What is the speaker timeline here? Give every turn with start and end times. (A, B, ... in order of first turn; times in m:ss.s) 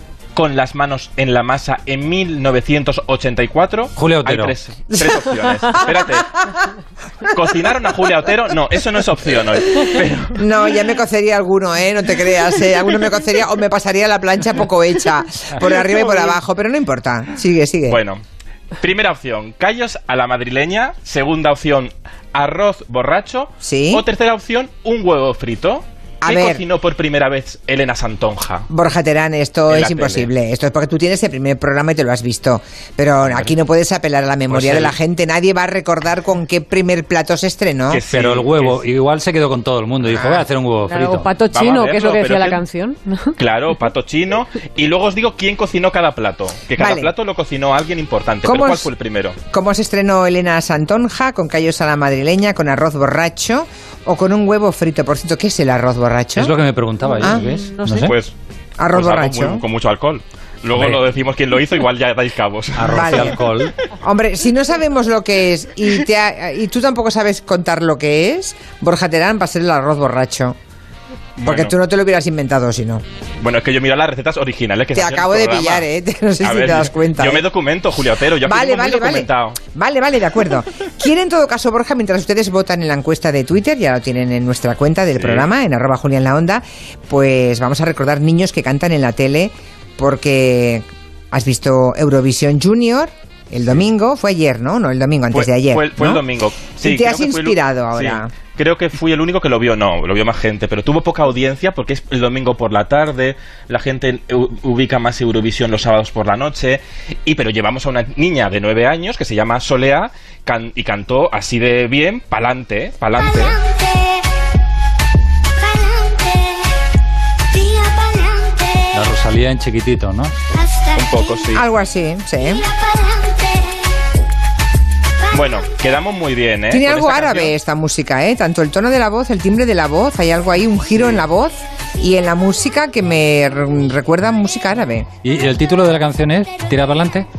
0:00.4-0:06.3 A
0:04.0-0:04.5 B
0:07.3-0:10.4 A
0:10.3-0:18.0 C
0:17.9-0:18.2 A
0:18.8-0:28.6 A
0:23.6-0:24.0 C
0:26.2-0:26.6 C
0:28.7-0:38.0 C
0:29.7-0:30.3 A
0:33.2-0:33.5 A
0:34.5-0:35.0 A
0:37.9-0:38.8 A
0:38.1-0:41.3 B
0:40.1-0:40.4 C
0:40.9-0:43.3 D
0:41.5-0:42.6 A
0:43.4-0:49.4 A
0:46.8-0:47.1 C
0:48.4-0:48.9 C
0:49.5-0:56.5 C
0:56.4-0:58.1 B
0:57.2-0:58.1 D
0:58.0-0:58.3 A
0:58.8-0:59.6 C
0:58.9-1:03.3 A
1:00.7-1:01.0 B
1:02.8-1:03.7 B
1:02.9-1:03.4 C
1:04.0-1:10.6 C
1:11.4-1:11.7 A
1:11.4-1:13.0 C
1:13.4-1:15.9 A
1:14.9-1:17.4 C
1:16.4-1:19.6 A
1:18.4-1:36.2 C
1:25.1-1:25.5 A
1:35.3-1:53.6 A
1:36.8-1:38.3 C
1:55.7-1:56.5 E
1:57.6-1:58.7 E
1:58.9-2:00.3 B
2:00.7-2:01.2 E
2:00.9-2:01.6 A
2:01.5-2:02.7 C
2:02.9-2:03.5 E
2:05.3-2:07.5 A
2:06.7-2:15.1 C
2:15.2-2:17.3 B